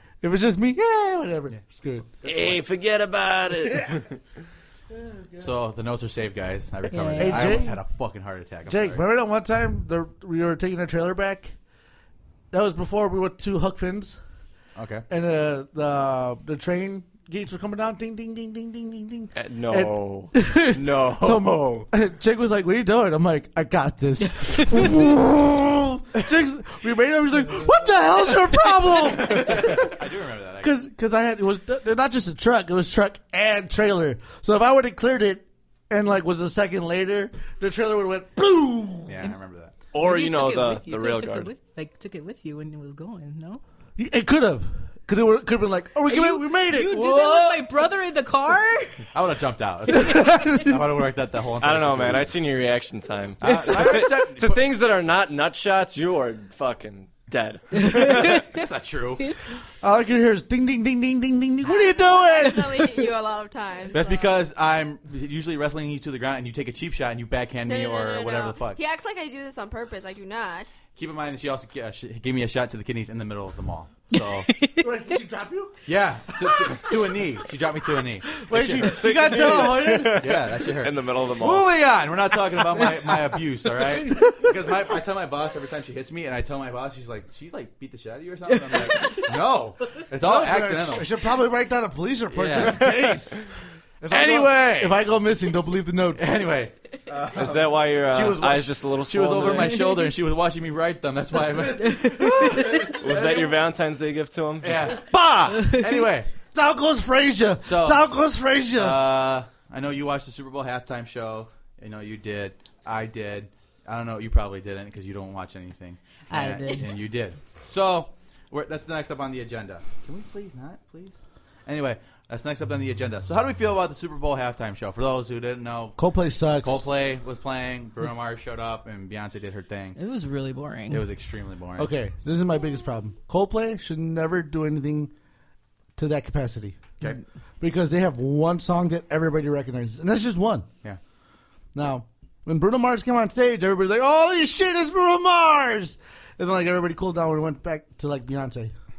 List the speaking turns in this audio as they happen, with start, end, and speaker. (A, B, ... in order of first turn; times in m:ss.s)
0:00.2-0:02.2 A
0:02.2-0:02.6 B
0:02.2-0:04.2 C
0:03.6-0:04.0 A
0:04.9-0:05.5 A
0:05.4-0:09.0 B
0:06.9-0:07.7 D
0:07.2-0:07.8 A
0:08.6-0:11.5 A
0:12.5-0:14.2 A
0:14.8-0:15.0 B
0:15.1-0:30.0 A
0:19.3-0:21.9 C
0:29.2-0:30.7 B
0:30.6-0:39.2 A
0:39.0-0:39.7 B
0:39.9-0:41.5 C
0:39.9-0:43.6 D
0:44.0-0:47.3 A
0:46.1-0:49.1 D
0:46.9-0:47.5 B
0:49.1-0:52.3 B
0:50.0-0:50.8 A
0:51.6-0:58.2 C
0:53.4-0:54.6 B
0:57.9-0:58.4 D
0:58.0-0:59.4 B
0:59.8-1:02.9 A
1:01.6-1:04.4 E
1:03.9-1:08.8 B
1:07.6-1:10.8 E
1:10.9-1:14.5 B
1:14.2-1:14.9 D
1:14.8-1:15.8 A
1:15.8-1:31.0 B
1:16.4-1:17.0 A
1:18.3-1:20.4 A
1:18.8-1:21.7 C
1:24.0-1:24.4 A
1:30.2-1:33.5 A
1:32.3-1:33.2 B
1:34.0-1:36.4 A
1:34.1-1:35.0 B
1:36.2-1:43.6 B
1:37.3-1:39.8 C
1:41.8-1:42.8 D
1:42.9-1:44.9 C
1:44.6-1:46.3 B
1:45.0-1:45.8 A
1:46.5-1:49.0 A
1:47.6-1:48.0 B
1:48.8-2:06.0 B
1:56.3-1:56.9 D
2:06.0-2:06.8 A
2:06.6-2:10.0 B
2:10.0-2:11.0 D
2:10.9-2:11.9 B
2:11.8-2:15.1 A
2:16.0-2:16.9 A
2:17.6-2:20.7 A
2:21.7-2:28.7 A